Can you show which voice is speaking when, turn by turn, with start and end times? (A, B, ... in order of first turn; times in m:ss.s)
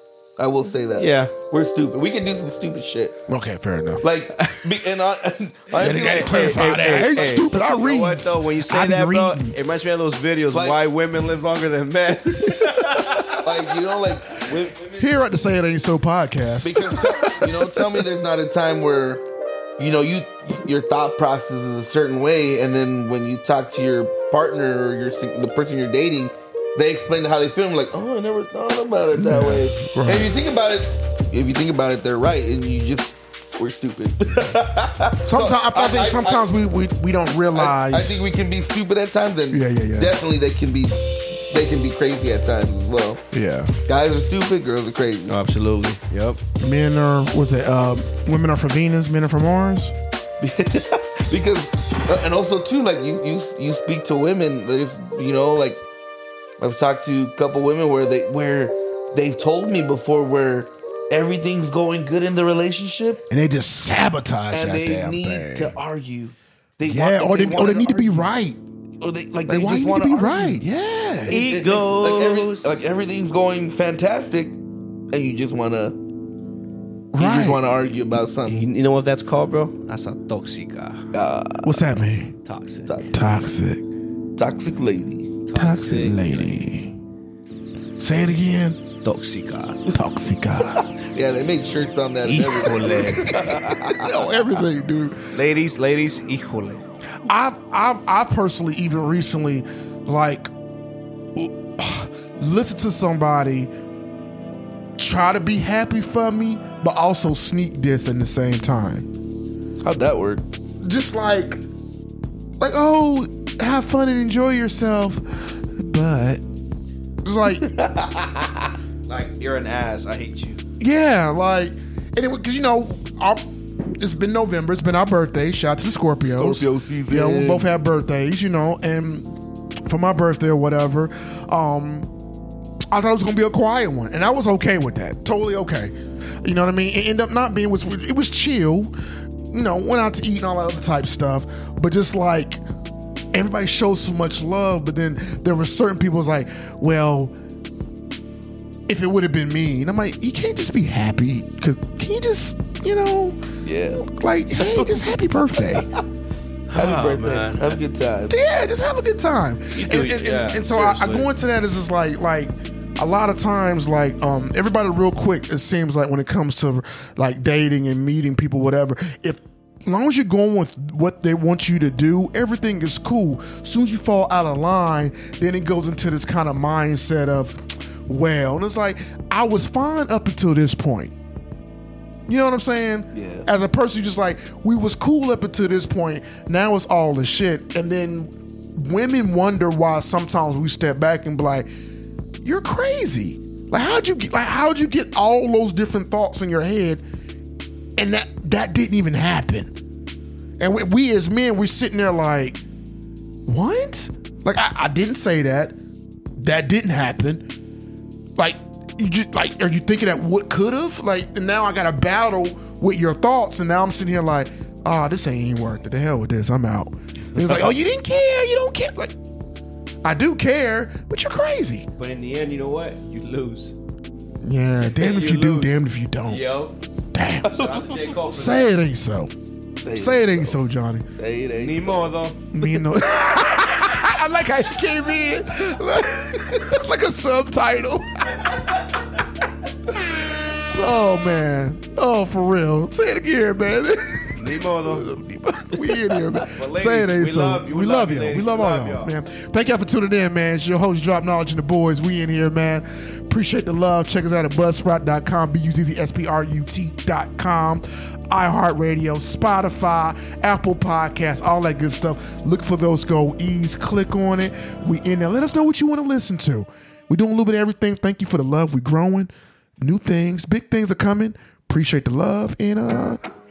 0:00.4-0:03.2 A
0:01.0-0:01.3 B
0:03.3-0:04.0 C
0:04.0-0:07.6 A
0:05.7-0:13.4 B
0:05.8-0:09.7 C
0:10.5-0:10.8 A
0:13.3-0:15.1 A
0:15.0-0:17.9 C
0:16.6-0:19.2 A
0:19.8-0:36.5 A
0:29.1-0:30.3 C
0:35.2-0:38.2 C
0:37.5-0:43.2 A
0:39.5-0:40.2 C
0:43.3-0:43.7 C
0:43.9-0:45.4 A
0:45.2-0:46.4 B
0:46.6-0:49.9 C
0:50.4-0:55.8 A
0:56.6-1:03.2 A
1:03.3-1:05.8 C
1:04.5-1:08.3 A
1:06.8-1:08.6 C
1:09.0-1:10.6 A
1:09.5-1:11.4 C
1:11.2-1:14.6 A
1:11.3-1:12.8 B
1:15.1-1:16.0 A
1:17.1-1:17.6 C
1:17.2-1:18.7 A
1:18.5-1:21.1 B
1:21.1-1:21.7 A
1:21.6-1:22.4 C
1:22.4-1:23.0 B
1:22.9-1:23.2 A
1:23.1-1:23.8 C
1:24.4-1:25.4 A
1:25.4-1:26.6 B
1:25.5-1:26.9 C
1:28.0-1:28.8 C
1:29.0-1:29.9 B
1:29.9-1:30.9 C
1:30.8-1:34.6 A
1:32.2-1:33.6 B
1:33.9-1:35.3 C
1:35.3-1:36.8 B
1:37.2-1:40.5 C
1:41.4-1:43.7 C
1:45.0-1:49.1 C
1:49.8-1:50.4 A
1:50.8-1:51.6 C
1:52.6-1:56.4 C
1:57.2-1:57.7 C
1:57.5-1:58.7 A
1:59.1-2:00.6 B
2:00.8-2:03.4 C
2:04.0-2:09.3 C
2:06.2-2:07.7 A
2:09.9-2:12.1 C
2:12.9-2:18.9 C
2:19.5-2:22.6 C
2:23.3-2:27.4 C
2:28.9-2:33.4 C
2:33.6-2:34.0 A
2:34.0-2:35.9 C
2:34.6-2:34.9 A
2:35.6-2:35.8 A
2:36.7-2:37.8 B
2:36.7-2:38.4 A
2:38.3-3:01.1 C
2:39.7-2:41.3 B
3:02.3-3:11.7 C
3:03.1-3:03.5 A
3:12.4-3:17.0 C
3:18.0-3:19.7 C
3:20.6-3:22.6 C
3:23.5-3:25.8 C
3:26.4-3:27.5 C
3:28.4-3:39.1 C
3:37.4-3:37.7 A
3:40.0-3:41.9 C
3:42.0-3:43.8 B
3:44.4-3:46.4 C
3:44.8-3:46.7 B
3:47.1-3:47.6 C
3:47.4-3:48.7 B
3:47.6-3:48.1 A
3:48.3-3:49.3 C
3:49.8-3:50.6 A
3:49.9-3:51.1 C
3:51.1-3:52.0 A
3:51.6-3:52.4 B
3:52.5-3:58.8 C
3:59.9-4:33.2 C
4:04.4-4:05.2 B
4:06.4-4:09.1 B